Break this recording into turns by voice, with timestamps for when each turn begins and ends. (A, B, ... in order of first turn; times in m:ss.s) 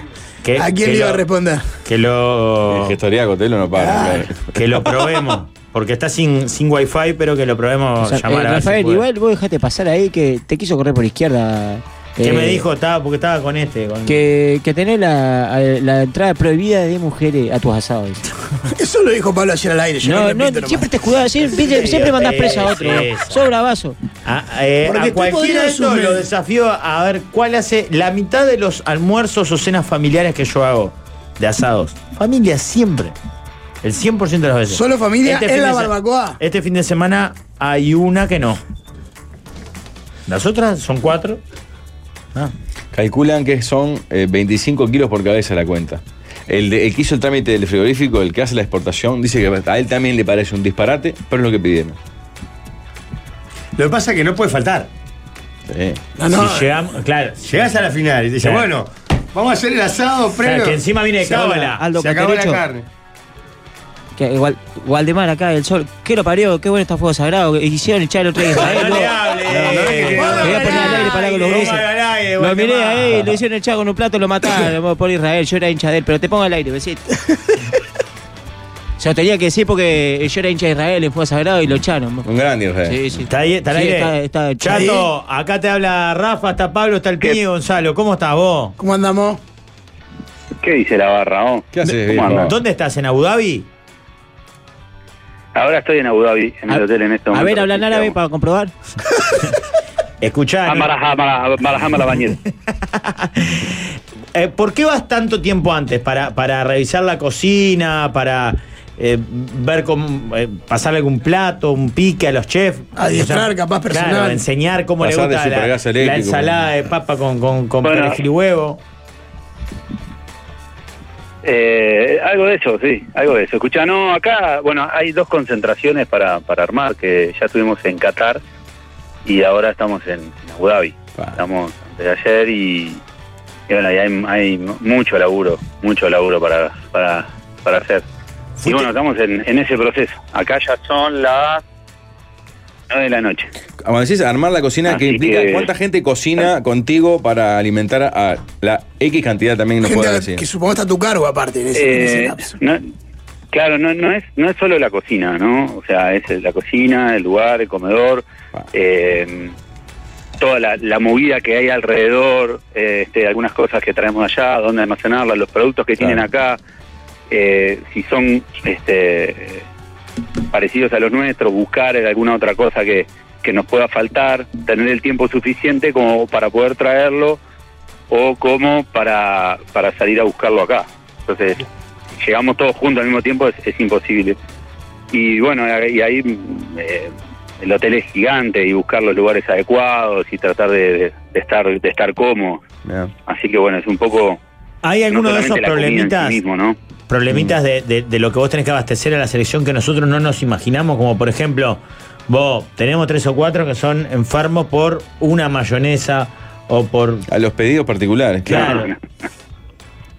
0:00.4-0:01.2 A
0:00.6-0:01.7 B
0:01.8-0:03.0 A
0:02.7-0:04.9 C
0:03.8-0:04.3 B
0:04.5-0:09.0 A
0:08.0-0:12.7 D
0:12.2-0:14.2 A
0:14.1-0:18.3 D
0:18.7-0:20.9 B
0:20.0-0:24.0 D
0:21.5-0:23.5 A
0:24.2-0:33.2 A
0:24.8-0:26.2 B
0:33.8-0:38.6 A
0:34.7-0:36.4 B
0:40.3-0:41.4 A
0:42.9-0:52.0 C
0:53.8-0:54.9 E
0:55.7-0:56.0 C
0:56.2-0:56.7 B
0:56.3-0:57.5 A
0:57.4-1:02.8 E
1:00.4-1:01.8 A
1:01.8-1:02.6 D
1:04.2-1:09.8 D
1:08.5-1:13.4 A
1:09.5-1:10.8 E
1:10.2-1:11.5 B
1:10.3-1:11.9 D
1:12.4-1:17.0 D
1:19.0-1:22.3 D
1:22.2-1:23.2 C
1:22.8-1:25.0 D
1:23.3-1:28.8 A
1:24.7-1:25.1 B
1:28.8-1:29.4 B
1:30.6-1:32.5 F
1:31.7-1:32.6 C
1:32.3-1:33.7 A
1:35.5-1:38.2 F
1:36.7-1:38.7 D
1:40.2-1:40.9 A
1:40.7-1:42.4 F
1:42.9-1:43.8 A
1:44.3-1:58.8 A
1:53.0-1:54.4 B
1:55.0-1:56.6 C
1:57.8-1:58.2 F
2:01.4-2:08.4 F
2:09.2-2:13.0 F
2:11.2-2:11.4 C
2:13.7-2:18.0 F
2:18.6-2:18.9 A
2:18.6-2:21.6 F
2:22.9-2:23.5 F
2:23.8-2:30.4 C
2:24.9-2:25.7 F
2:29.8-2:32.6 B
2:31.7-2:32.8 F
2:33.5-2:39.5 F
2:40.4-2:46.6 F
2:46.0-2:46.3 C
2:47.3-2:49.6 F
2:50.5-2:57.4 F
2:58.1-3:01.7 F
3:02.2-3:04.4 F
3:05.1-3:12.6 F
3:12.8-3:13.1 C
3:13.3-3:14.4 F
3:14.8-3:16.4 A
3:15.1-3:16.8 F
3:17.1-3:27.2 A
3:17.3-3:17.6 C
3:27.3-3:28.8 C
3:28.5-3:28.9 A
3:28.6-3:29.0 F